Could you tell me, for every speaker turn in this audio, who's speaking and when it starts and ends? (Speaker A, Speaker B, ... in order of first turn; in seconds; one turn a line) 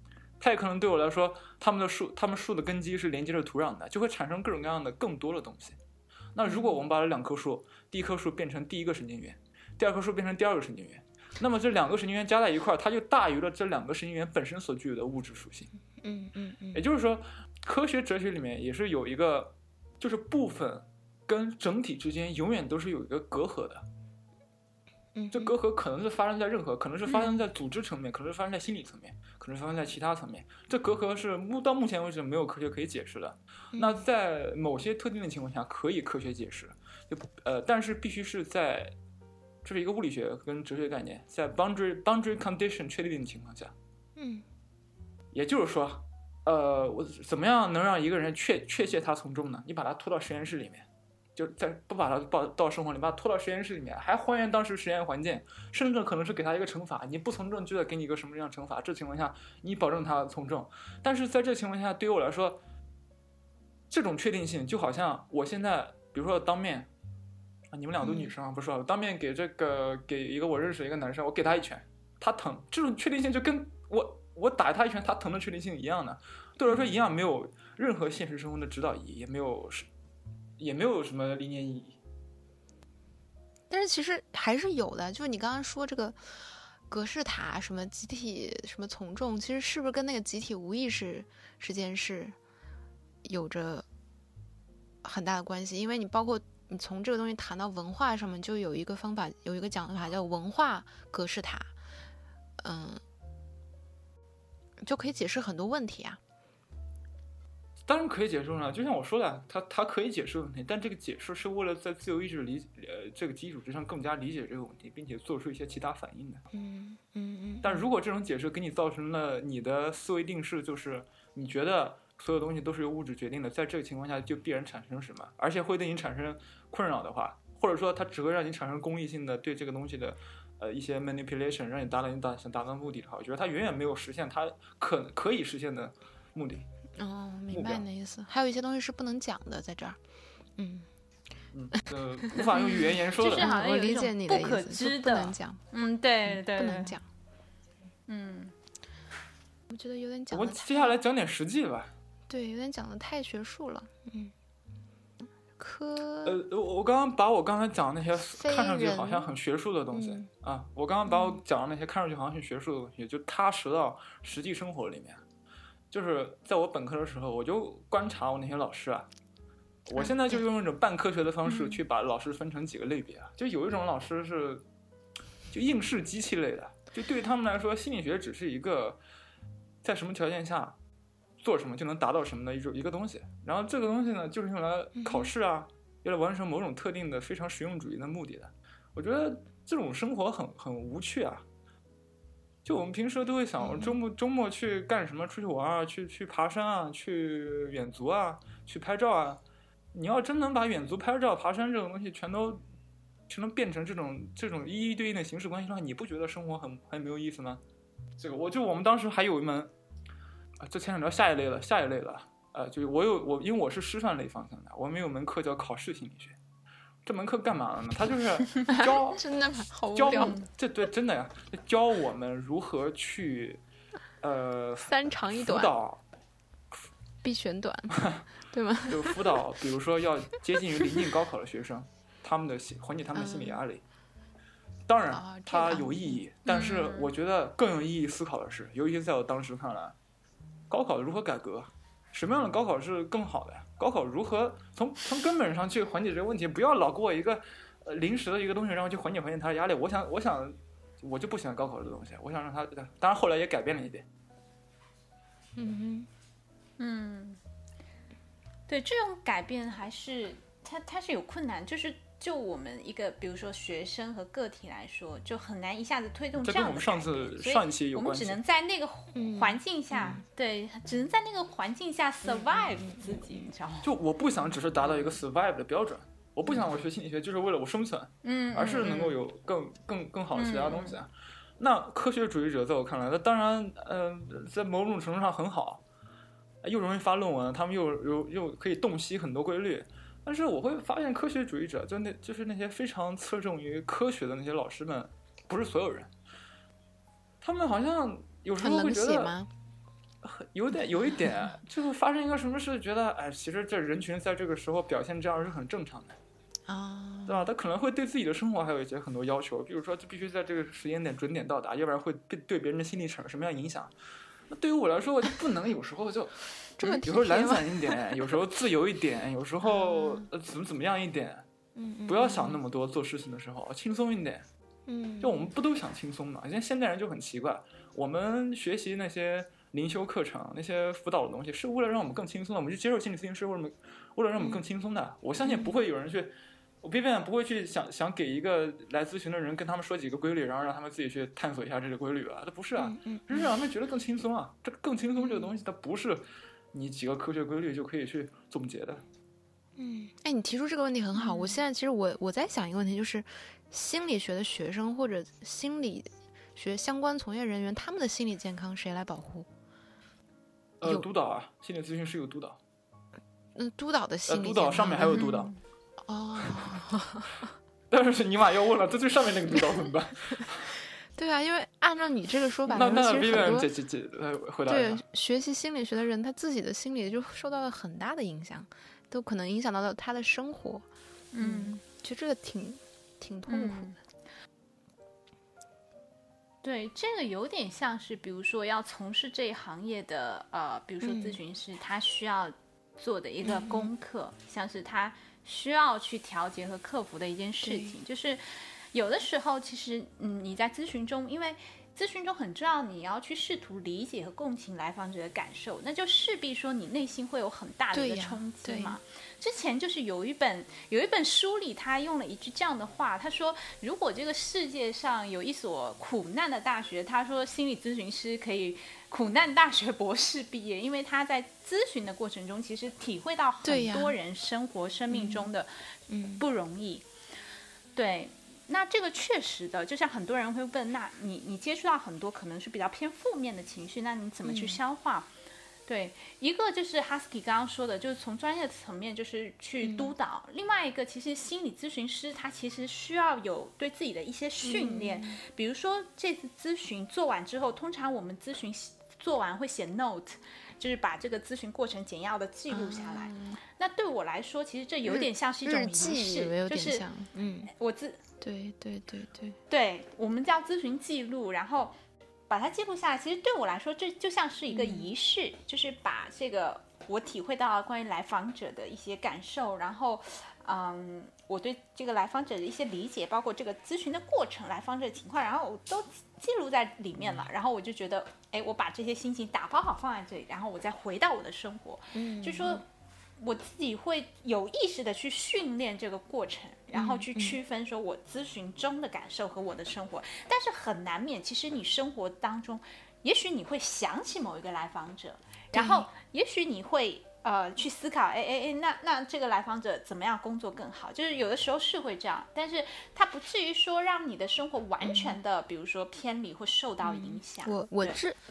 Speaker A: 0.4-5.8
Speaker A: 6.3-15.7
Speaker B: 6.4-6.8
Speaker B: 16.0-16.8
Speaker A: 16.7-23.8
Speaker B: 25.1-25.5
Speaker A: 25.3-38.9
Speaker B: 27.1-27.4
Speaker B: 33.7-34.0
Speaker A: 39.6-43.7
Speaker B: 44.2-44.4
Speaker A: 45.3-62.6
Speaker A: 63.9-66.9
Speaker A: 67.7-79.9
Speaker B: 68.0-68.3
Speaker B: 76.7-76.9
Speaker A: 80.6-82.0
Speaker B: 83.7-92.3
Speaker B: 93.2-93.8
Speaker B: 95.0-101.7
Speaker B: 102.6-103.0
Speaker B: 104.8-106.2
Speaker A: 107.9-116.5
Speaker B: 116.5-117.8
Speaker A: 117.6-136.6
Speaker B: 137.0-140.0
Speaker A: 137.5-137.8
Speaker B: 140.6-140.9
Speaker A: 141.5-143.5
Speaker B: 142.3-145.6
Speaker C: 143.0-147.0
Speaker B: 146.2-147.0
Speaker C: 148.1-148.5
Speaker B: 149.7-150.9
Speaker A: 150.3-151.9
Speaker B: 152.3-154.3
Speaker B: 155.6-156.4
Speaker A: 156.2-165.2
Speaker B: 158.4-159.3
Speaker B: 159.9-160.3
Speaker B: 161.1-161.4
Speaker A: 165.9-169.1
Speaker A: 169.9-174.6
Speaker B: 169.9-170.4
Speaker C: 171.5-171.8
Speaker A: 175.5-179.0
Speaker A: 179.8-180.8
Speaker A: 181.4-191.4
Speaker B: 184.9-185.3
Speaker A: 192.6-199.4
Speaker B: 193.6-193.9
Speaker A: 199.9-202.6
Speaker A: 203.3-207.6
Speaker A: 208.2-209.7
Speaker A: 210.6-216.3
Speaker A: 217.0-219.2
Speaker B: 218.7-220.3
Speaker A: 219.9-223.6
Speaker C: 220.1-220.4
Speaker A: 224.2-226.0
Speaker B: 224.9-225.7
Speaker B: 227.2-229.2
Speaker A: 228.0-228.2
Speaker A: 228.9-233.8
Speaker B: 233.1-233.6
Speaker A: 234.9-239.9
Speaker B: 235.1-236.2
Speaker C: 236.5-237.1
Speaker A: 240.7-254.0
Speaker B: 255.6-256.1
Speaker C: 256.8-257.4
Speaker C: 258.7-273.9
Speaker A: 266.4-268.4
Speaker B: 269.1-270.2
Speaker B: 272.2-273.4
Speaker A: 273.8-285.8
Speaker C: 278.2-279.1
Speaker C: 280.3-281.0
Speaker A: 286.6-296.1
Speaker A: 297.4-299.3
Speaker B: 298.6-299.5
Speaker A: 300.2-306.2
Speaker B: 301.1-301.4
Speaker B: 306.7-307.4
Speaker A: 307.3-313.9
Speaker A: 314.5-316.4
Speaker B: 316.8-318.0
Speaker A: 317.0-321.4
Speaker B: 319.6-320.3
Speaker B: 321.8-322.6
Speaker A: 322.1-324.4
Speaker B: 324.9-325.5
Speaker A: 325.2-349.0
Speaker B: 334.4-334.6
Speaker B: 335.4-335.8
Speaker B: 342.8-343.5
Speaker B: 345.1-345.5
Speaker B: 349.8-359.5
Speaker C: 351.1-351.6
Speaker A: 360.8-362.6
Speaker B: 363.5-365.3
Speaker A: 364.3-365.5
Speaker C: 365.1-365.6
Speaker B: 366.0-367.3
Speaker A: 367.9-370.7
Speaker B: 371.1-373.7
Speaker A: 372.7-375.0
Speaker B: 374.7-380.8
Speaker C: 381.3-381.8
Speaker B: 381.4-383.9
Speaker C: 383.5-384.0
Speaker C: 386.6-425.7
Speaker B: 391.0-391.4
Speaker B: 393.4-393.9
Speaker B: 397.6-397.9
Speaker B: 407.9-409.0
Speaker B: 423.6-424.1
Speaker B: 425.1-425.5
Speaker B: 426.1-426.4
Speaker C: 426.4-427.1
Speaker C: 427.9-435.3
Speaker B: 434.4-434.8
Speaker C: 435.9-457.1
Speaker B: 439.8-440.1
Speaker B: 444.6-445.4
Speaker B: 452.7-453.6
Speaker B: 455.1-457.7
Speaker C: 457.7-458.2
Speaker B: 458.4-459.6
Speaker C: 459.7-461.9
Speaker C: 462.5-482.8
Speaker B: 464.7-465.1
Speaker B: 482.1-482.8
Speaker C: 483.4-508.2
Speaker B: 486.9-487.6
Speaker B: 495.7-496.1
Speaker B: 505.0-505.4
Speaker B: 507.0-508.4